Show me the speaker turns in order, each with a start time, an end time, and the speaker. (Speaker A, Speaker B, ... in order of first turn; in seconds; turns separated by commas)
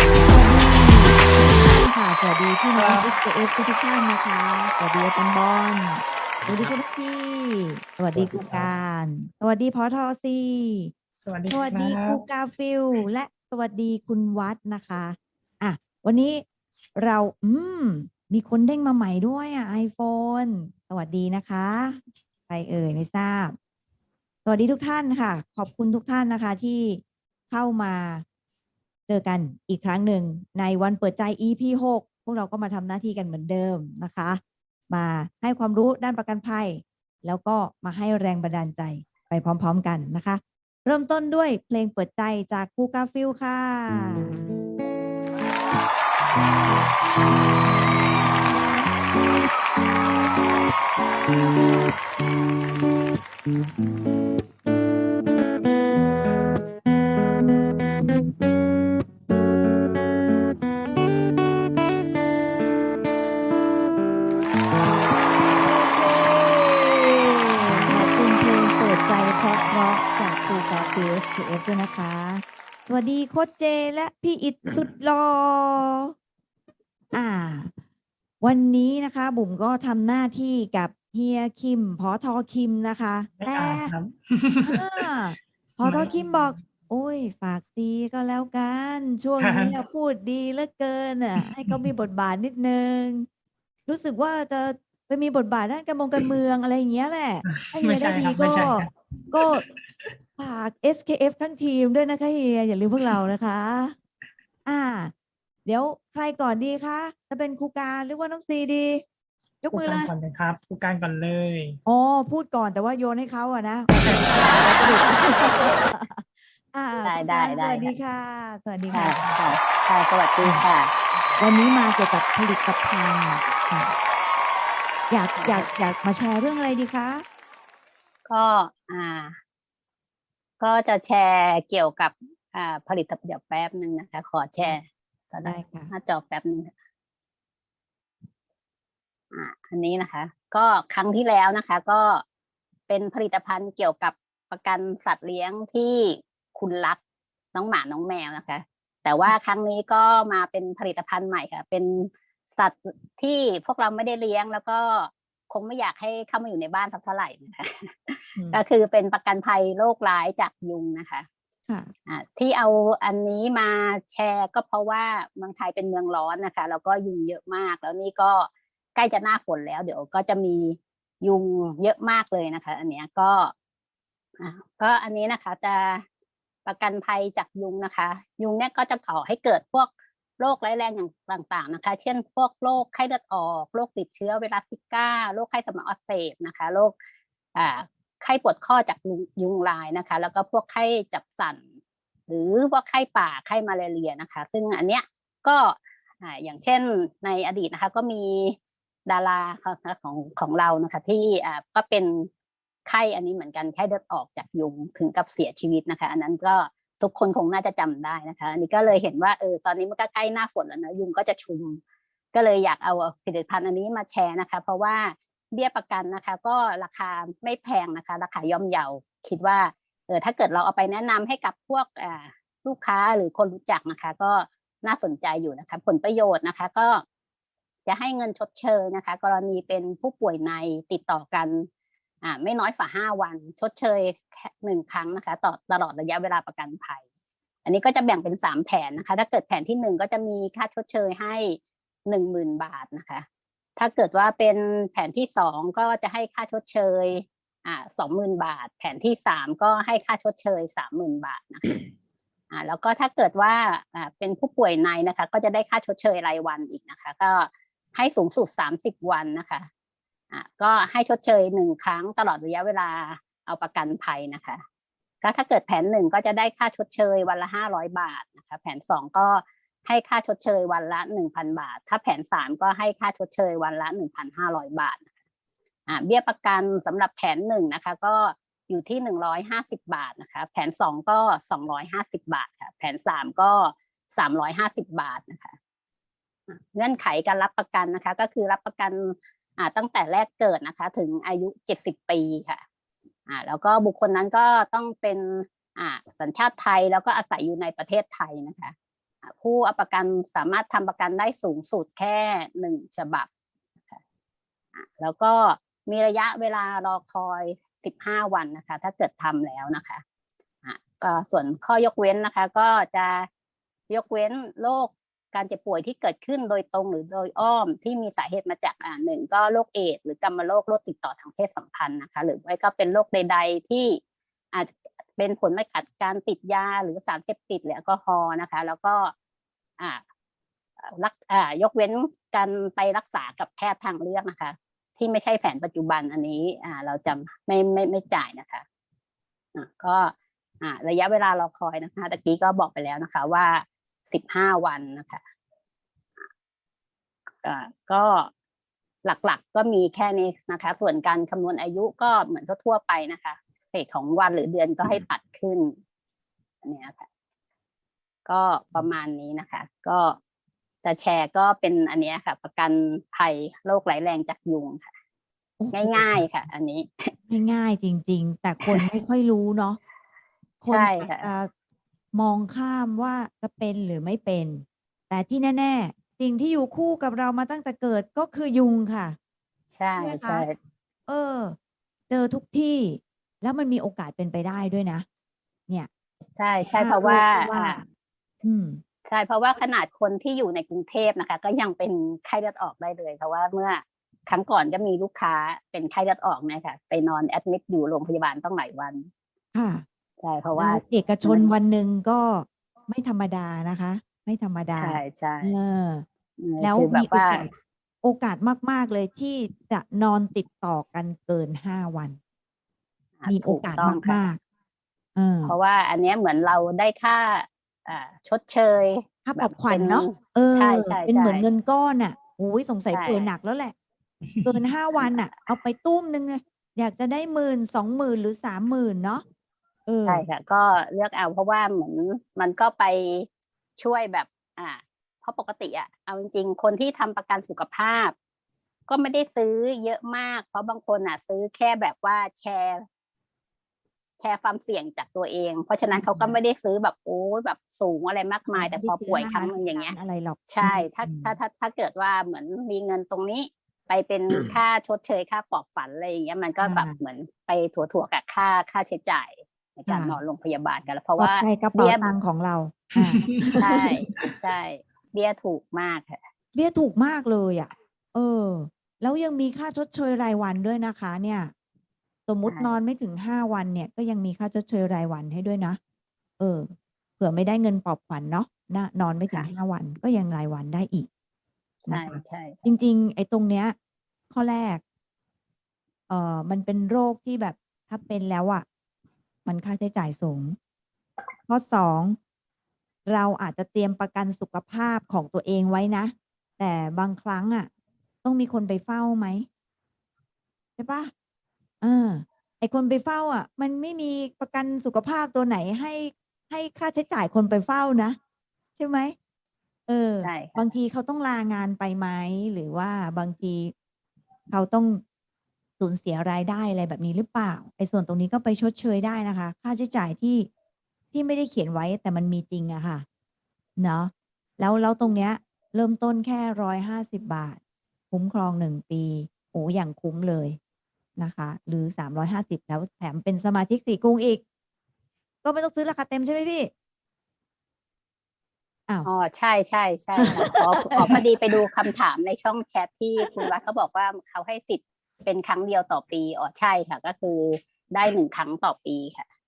Speaker A: 0.2-10.9, Speaker B: 2.8-3.1, Speaker B: 6.4-6.8, Speaker B: 8.1-8.8, Speaker B: 11.2-12.2, Speaker A: 11.5-16.4, Speaker A: 17.0-23.6, Speaker A: 24.5-28.2, Speaker A: 29.1-44.4, Speaker A: 65.5-67.3, Speaker A: 67.8-76.1, Speaker A: 77.1-77.7, Speaker A: 78.4-83.9, Speaker B: 83.4-85.0, Speaker A: 84.6-93.3, Speaker B: 85.8-86.6, Speaker B: 89.4-89.8, Speaker B: 91.4-91.9, Speaker A: 93.9-99.6, Speaker B: 97.5-100.1, Speaker A: 100.4-104.0, Speaker A: 104.7-105.1, Speaker A: 105.7-109.0, Speaker A: 109.6-110.1, Speaker B: 109.7-111.8, Speaker A: 111.9-119.5, Speaker B: 113.9-115.0, Speaker C: 117.0-118.0, Speaker C: 118.9-121.0, Speaker A: 121.4-123.9, Speaker A: 125.1-127.2, Speaker C: 125.4-125.7, Speaker C: 128.3-129.4, Speaker C: 130.6-136.7, Speaker A: 135.4-135.9, Speaker C: 139.3-142.2, Speaker C: 142.9-147.0, Speaker C: 147.5-161.3, Speaker A: 158.4-158.6, Speaker C: 162.1-173.5, Speaker C: 174.4-176.0, Speaker C: 176.7-187.0, Speaker C: 187.6-191.7, Speaker C: 192.3-202.3, Speaker C: 202.9-211.8, Speaker C: 212.3-227.1, Speaker C: 227.9-231.7, Speaker C: 232.2-237.0, Speaker C: 237.7-251.8, Speaker C: 252.5-259.7, Speaker C: 260.3-264.6, Speaker C: 265.2-275.0, Speaker C: 275.9-285.6, Speaker C: 286.5-292.6, Speaker C: 293.3-303.3, Speaker C: 304.8-310.0, Speaker C: 310.6-313.3, Speaker C: 313.9-324.0, Speaker C: 324.5-329.1, Speaker C: 330.8-338.6, Speaker C: 339.6-345.2, Speaker C: 347.4-348.3, Speaker C: 349.1-355.7, Speaker C: 356.6-357.1, Speaker C: 358.3-360.2, Speaker C: 360.8-364.9, Speaker A: 365.6-366.2, Speaker C: 365.7-367.1, Speaker A: 367.3-369.8, Speaker C: 370.6-371.3, Speaker A: 370.6-371.5, Speaker A: 372.1-379.2, Speaker C: 379.7-380.6, Speaker A: 380.0-380.5, Speaker A: 381.1-381.6, Speaker A: 382.1-385.1, Speaker C: 386.3-387.8, Speaker A: 386.7-387.8, Speaker A: 388.4-388.8, Speaker C: 389.1-399.1, Speaker A: 399.5-399.9, Speaker C: 400.2-401.6, Speaker A: 400.6-406.1, Speaker C: 404.8-405.6, Speaker C: 406.4-407.5, Speaker A: 406.6-407.5, Speaker A: 408.0-412.2, Speaker C: 413.2-414.3, Speaker A: 413.3-414.4, Speaker A: 415.2-415.6, Speaker C: 415.4-421.5, Speaker A: 419.3-423.8, Speaker C: 422.9-423.3, Speaker B: 424.3-424.6, Speaker A: 424.4-429.2, Speaker C: 425.0-425.2, Speaker A: 429.9-430.2, Speaker C: 430.1-433.3, Speaker C: 433.8-438.1, Speaker C: 438.9-442.8, Speaker C: 444.2-449.9, Speaker A: 445.9-446.4, Speaker A: 448.5-451.4, Speaker C: 450.5-462.1, Speaker A: 456.6-457.0, Speaker A: 459.9-460.2, Speaker A: 461.2-464.0, Speaker B: 463.0-463.6, Speaker C: 463.6-466.2, Speaker A: 466.6-471.5, Speaker A: 472.3-475.8, Speaker C: 472.5-472.8, Speaker A: 476.4-481.1, Speaker C: 481.9-482.6, Speaker A: 481.9-483.8, Speaker A: 484.3-484.8, Speaker A: 486.1-488.6, Speaker A: 489.5-490.6, Speaker A: 491.5-492.2, Speaker A: 493.1-497.7, Speaker A: 498.2-499.5, Speaker A: 500.8-501.1, Speaker A: 501.8-508.2, Speaker A: 508.8-509.1, Speaker A: 509.9-513.7, Speaker C: 510.2-510.6, Speaker A: 514.5-515.0, Speaker A: 515.8-520.5, Speaker A: 521.1-523.0, Speaker A: 523.8-527.6, Speaker A: 528.1-530.6, Speaker A: 531.2-534.4, Speaker A: 535.4-536.7, Speaker C: 539.1-549.2, Speaker A: 540.2-541.2, Speaker A: 543.2-543.5